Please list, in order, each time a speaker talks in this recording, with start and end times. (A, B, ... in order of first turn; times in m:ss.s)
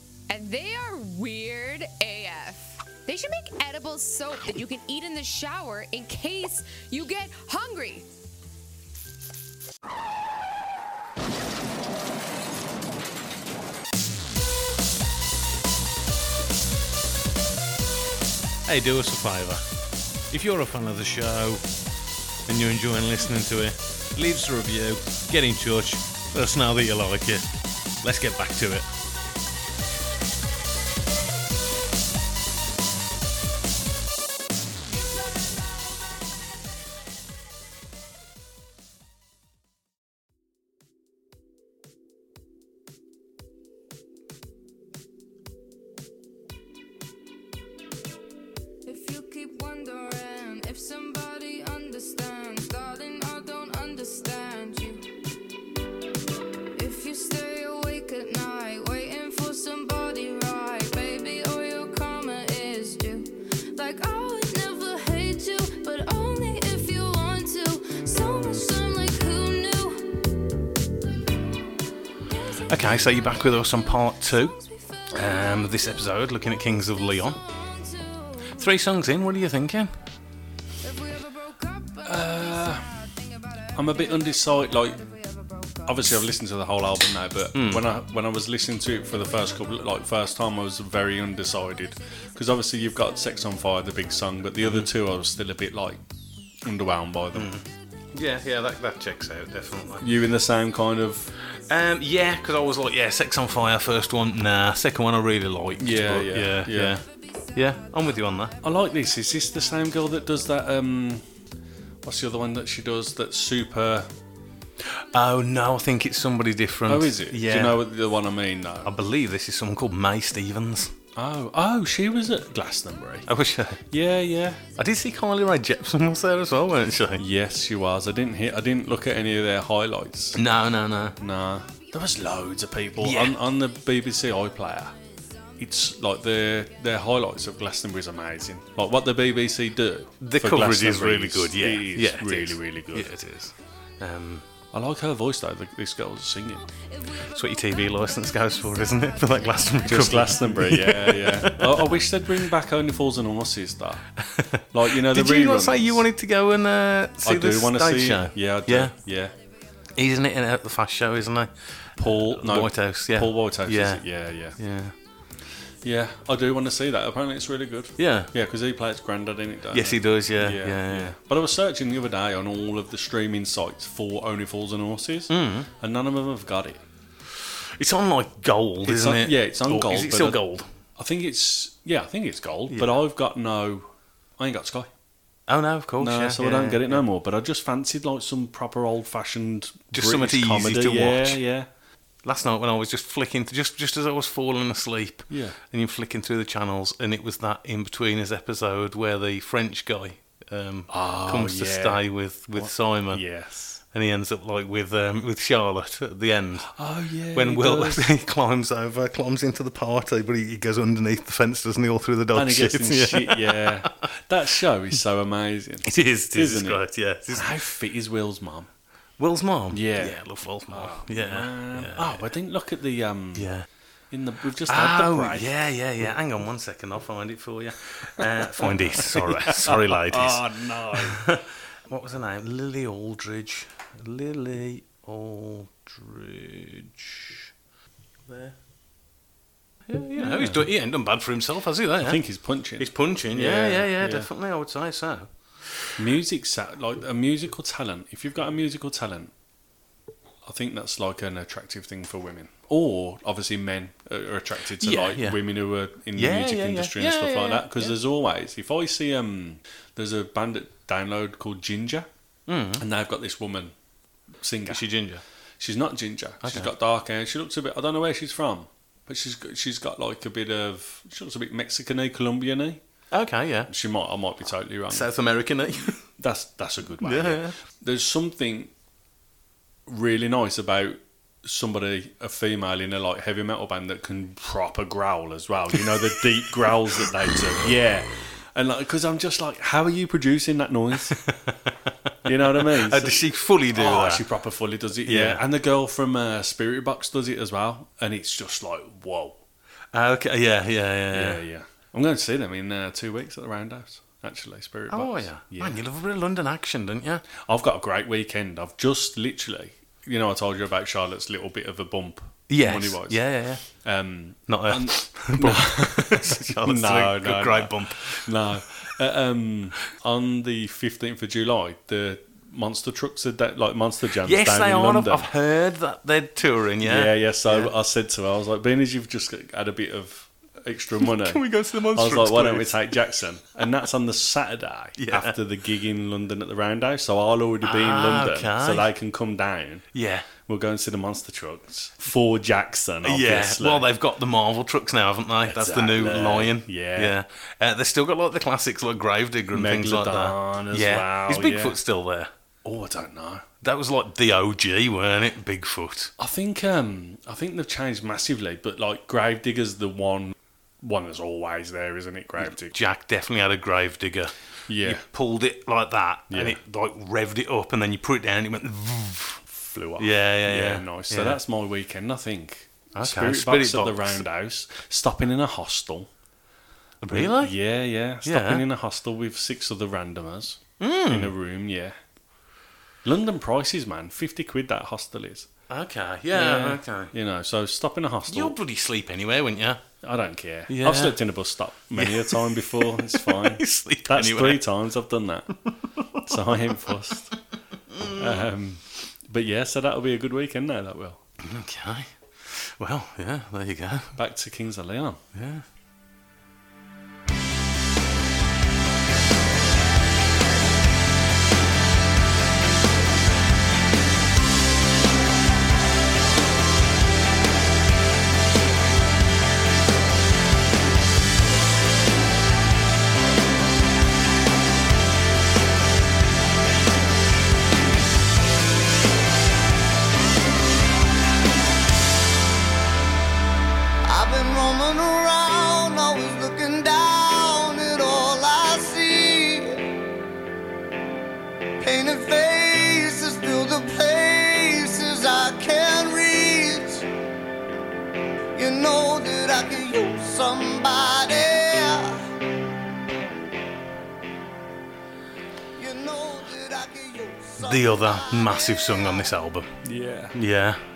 0:00.3-0:08.1 A
0:18.6-0:19.6 B
0:20.3-0:21.6 B
0:22.4-0:28.9 B
0:48.8-0:55.0 C
0:56.7-1:10.3 C
1:12.3-1:12.8 C
1:12.7-1:14.6 B
1:14.6-1:15.8 C
1:15.1-1:17.4 B
1:17.3-1:18.7 C
1:18.5-1:19.9 B
1:20.8-1:26.2 C
1:22.0-1:22.9 D
1:23.8-1:25.0 D
1:25.8-1:36.0 D
1:27.5-1:27.9 B
1:34.6-1:34.9 B
1:36.6-1:37.5 D
1:37.3-1:40.0 B
1:40.0-1:41.3 D
1:41.5-1:47.0 B
1:45.8-1:47.0 D
1:47.5-1:48.5 B
1:48.6-1:51.2 D
1:52.0-1:54.1 D
1:54.9-1:57.8 B
1:56.9-1:58.9 D
1:58.8-2:00.9 B
2:01.2-2:03.3 D
2:03.3-2:03.8 B
2:03.9-2:04.6 D
2:04.8-2:07.2 B
2:07.2-2:10.4 D
2:10.3-2:11.2 B
2:11.2-2:14.9 D
2:13.0-2:13.4 B
2:15.6-2:23.1 D
2:20.2-2:24.5 B
2:24.7-2:26.6 D
2:26.8-2:30.1 C
2:27.2-2:32.0 B
2:29.8-2:34.0 D
2:34.2-2:38.9 B
2:34.7-2:36.1 D
2:37.2-2:39.3 D
2:39.9-2:44.0 B
2:42.0-2:44.6 D
2:44.6-2:44.9 B
2:45.8-2:56.8 D
2:48.0-2:48.3 B
2:49.7-2:51.2 B
2:55.3-2:55.7 B
2:57.3-3:00.7 B
2:58.8-3:00.4 D
3:00.9-3:04.9 D
3:02.7-3:03.0 B
3:05.5-3:07.0 B
3:06.0-3:11.7 D
3:09.9-3:11.4 B
3:12.2-3:23.2 B
3:15.3-3:15.6 D
3:20.9-3:23.8 D
3:23.9-3:26.7 B
3:26.7-3:28.1 D
3:27.3-3:34.0 B
3:32.3-3:38.7 D
3:35.8-3:37.6 B
3:39.2-3:42.3 B
3:39.7-3:43.5 D
3:43.3-3:43.6 B
3:44.1-3:45.5 D
3:44.6-3:57.5 B
3:48.2-3:51.3 D
3:58.3-3:58.6 B
3:59.9-4:02.2 B
4:00.2-4:00.6 D
4:02.0-4:04.3 D
4:02.8-4:06.0 B
4:06.0-4:09.3 D
4:10.4-4:22.1 D
4:14.8-4:15.4 B
4:16.1-4:18.0 B
4:22.5-4:22.8 B
4:22.8-4:23.7 D
4:24.4-4:24.8 D
4:24.7-4:25.2 B
4:25.6-4:32.8 D
4:26.4-4:26.7 B
4:33.1-4:33.7 B
4:33.7-4:35.1 D
4:34.9-4:36.0 B
4:36.2-4:38.7 D
4:37.0-4:37.6 B
4:39.9-4:51.2 D
4:45.7-4:46.2 B
4:51.2-4:54.2 B
4:52.2-4:59.4 D
4:55.0-4:55.4 B
4:59.9-5:01.4 B
5:01.1-5:05.8 D
5:04.9-5:07.2 B
5:07.4-5:25.3 D
5:12.5-5:13.6 B
5:14.5-5:18.9 B
5:24.2-5:27.7 B
5:26.8-5:39.8 D
5:31.0-5:32.9 B
5:35.0-5:35.4 B
5:37.6-5:38.9 B
5:39.9-5:40.3 B
5:40.4-5:43.9 D
5:43.0-5:52.3 B
5:45.4-5:47.1 D
5:49.5-5:51.8 D
5:52.6-5:53.4 D
5:53.6-5:56.1 B
5:56.2-6:02.7 D
6:02.4-6:09.4 B
6:04.7-6:05.0 D
6:06.3-6:06.6 D
6:09.4-6:16.1 D
6:10.0-6:11.4 B
6:13.0-6:14.2 B
6:17.0-6:17.5 B
6:17.1-6:21.9 D
6:18.2-6:18.6 B
6:20.8-6:21.3 B
6:23.0-6:25.5 D
6:25.7-6:27.1 B
6:26.3-6:28.6 D
6:28.3-6:29.8 B
6:30.0-6:35.6 D
6:30.7-6:31.2 B
6:31.9-6:34.6 B
6:36.0-6:36.9 B
6:36.2-6:37.4 D
6:37.9-6:38.4 B
6:38.1-6:41.2 D
6:41.4-6:44.2 B
6:44.2-6:45.2 D
6:45.3-6:45.6 B
7:14.0-7:19.8 E
7:21.8-7:27.0 E
7:28.6-7:32.2 E
7:35.8-7:38.9 E
7:37.6-7:39.8 B
7:39.8-7:40.4 D
7:40.3-7:40.8 B